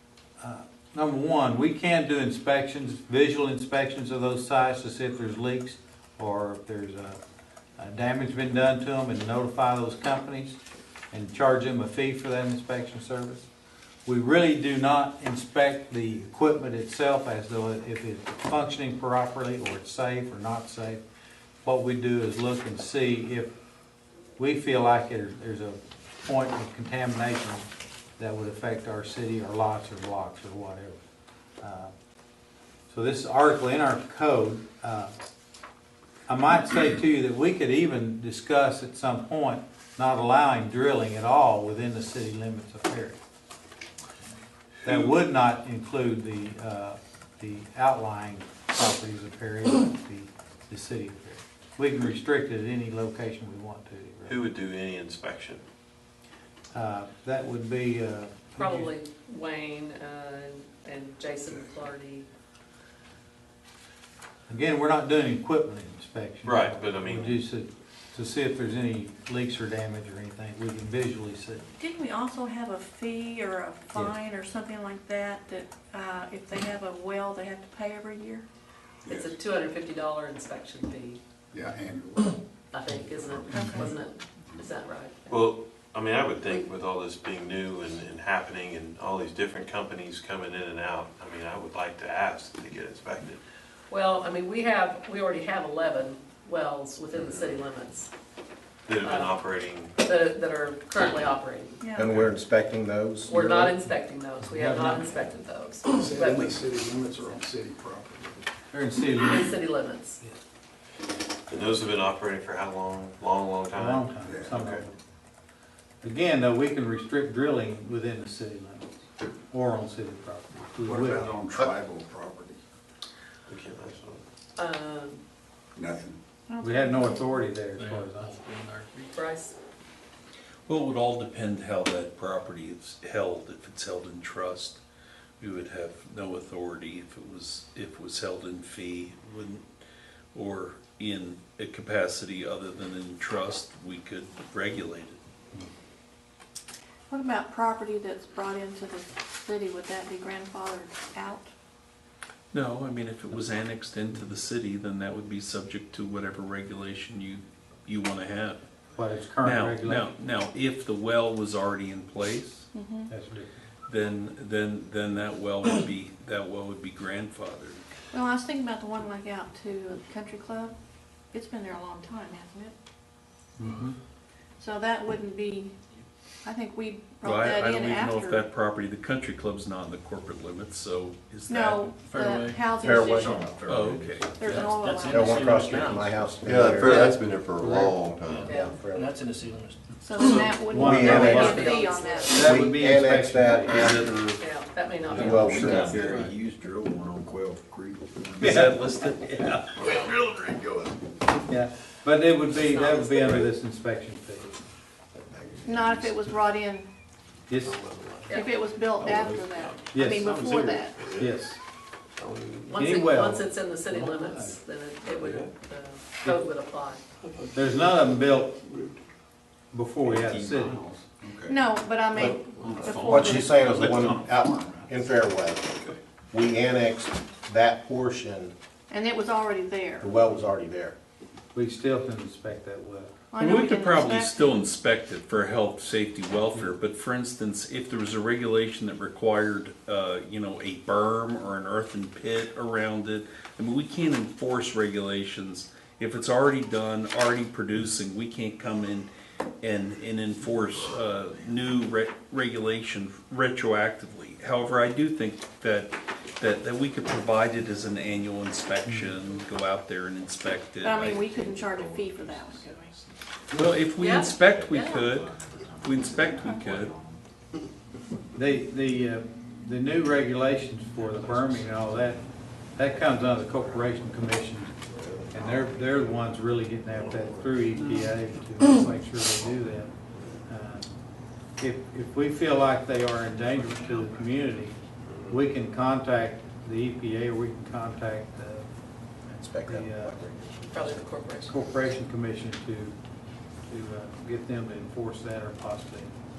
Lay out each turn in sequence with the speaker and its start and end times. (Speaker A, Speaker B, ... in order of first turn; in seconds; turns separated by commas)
Speaker A: 0.4-7.2, Speaker A: 7.8-10.6, Speaker A: 11.1-13.4, Speaker A: 14.0-21.0, Speaker A: 21.6-23.5, Speaker A: 24.4-27.6, Speaker A: 28.2-31.0, Speaker A: 31.6-31.9, Speaker A: 32.9-35.1, Speaker A: 36.3-43.2, Speaker A: 44.8-54.4, Speaker B: 54.2-55.6, Speaker A: 56.7-58.9, Speaker C: 58.6-62.3, Speaker A: 64.5-71.7, Speaker D: 66.4-66.7, Speaker B: 66.7-67.4, Speaker E: 71.8-78.4, Speaker C: 79.0-81.2, Speaker F: 81.5-84.0, Speaker C: 82.7-85.5, Speaker E: 83.5-83.8, Speaker B: 85.3-93.4, Speaker C: 93.9-98.1, Speaker B: 98.9-99.9, Speaker C: 99.0-99.3, Speaker C: 100.0-101.8, Speaker E: 101.8-102.1, Speaker G: 102.0-103.8, Speaker C: 103.3-106.6, Speaker A: 104.4-105.1, Speaker F: 105.9-108.4, Speaker A: 108.7-109.5, Speaker C: 109.1-110.2, Speaker B: 111.5-114.1, Speaker A: 113.8-115.0, Speaker F: 114.2-114.7, Speaker A: 116.0-121.3, Speaker F: 120.8-122.6, Speaker B: 123.5-124.2, Speaker C: 124.5-125.2, Speaker F: 125.8-126.2, Speaker E: 126.5-127.5, Speaker A: 126.6-128.4, Speaker D: 127.8-129.0, Speaker C: 129.1-129.5, Speaker D: 130.7-134.8, Speaker D: 135.4-139.6, Speaker D: 140.3-145.2, Speaker E: 147.1-151.5, Speaker D: 152.5-158.6, Speaker A: 158.9-160.1, Speaker D: 159.4-162.7, Speaker E: 162.7-163.1, Speaker A: 163.1-163.5, Speaker D: 163.9-167.8, Speaker E: 168.1-170.7, Speaker E: 171.3-172.7, Speaker E: 174.6-175.7, Speaker E: 176.4-178.4, Speaker D: 177.2-181.9, Speaker E: 181.5-183.6, Speaker H: 182.1-182.7, Speaker G: 182.7-183.5, Speaker I: 183.0-184.2, Speaker D: 183.6-184.3, Speaker E: 184.3-185.7, Speaker H: 184.4-186.2, Speaker G: 185.0-189.2, Speaker I: 186.4-188.4, Speaker H: 188.2-190.2, Speaker C: 188.4-188.8, Speaker E: 190.0-192.4, Speaker A: 190.7-194.2, Speaker G: 190.7-191.7, Speaker C: 190.9-192.5, Speaker G: 192.3-194.2, Speaker D: 193.7-194.1, Speaker C: 194.4-196.3, Speaker G: 195.1-196.0, Speaker I: 195.1-198.6, Speaker D: 198.4-199.9, Speaker A: 198.4-198.7, Speaker F: 199.8-200.9, Speaker A: 201.5-204.6, Speaker C: 202.5-203.5, Speaker E: 205.6-206.9, Speaker A: 207.5-207.8, Speaker B: 207.6-208.3, Speaker C: 208.3-208.6, Speaker E: 208.3-211.0, Speaker B: 209.0-209.8, Speaker A: 209.9-210.4, Speaker B: 210.3-211.2, Speaker A: 211.0-211.6, Speaker B: 212.2-212.7, Speaker C: 212.7-217.0, Speaker A: 212.7-214.6, Speaker B: 215.1-215.5, Speaker A: 217.5-218.6, Speaker A: 219.7-220.8, Speaker I: 220.1-221.5, Speaker E: 221.5-223.6, Speaker G: 222.1-222.4, Speaker I: 222.6-224.9, Speaker F: 222.9-223.2, Speaker G: 223.0-225.7, Speaker G: 226.3-228.5, Speaker E: 228.9-230.1, Speaker G: 230.0-230.9, Speaker A: 231.5-233.1, Speaker E: 233.3-234.5, Speaker D: 233.4-249.1, Speaker D: 249.6-261.2, Speaker E: 260.8-262.9, Speaker I: 261.4-262.6, Speaker D: 263.5-267.0, Speaker C: 264.0-265.0, Speaker I: 264.5-267.2, Speaker A: 268.3-274.7, Speaker I: 271.0-272.1, Speaker I: 273.6-274.0, Speaker I: 275.2-275.7, Speaker A: 275.3-279.9, Speaker A: 280.5-280.9, Speaker A: 281.6-284.7, Speaker A: 285.3-288.7, Speaker G: 289.3-291.1, Speaker A: 289.6-290.2, Speaker C: 290.7-291.6, Speaker A: 291.4-292.9, Speaker A: 293.7-296.1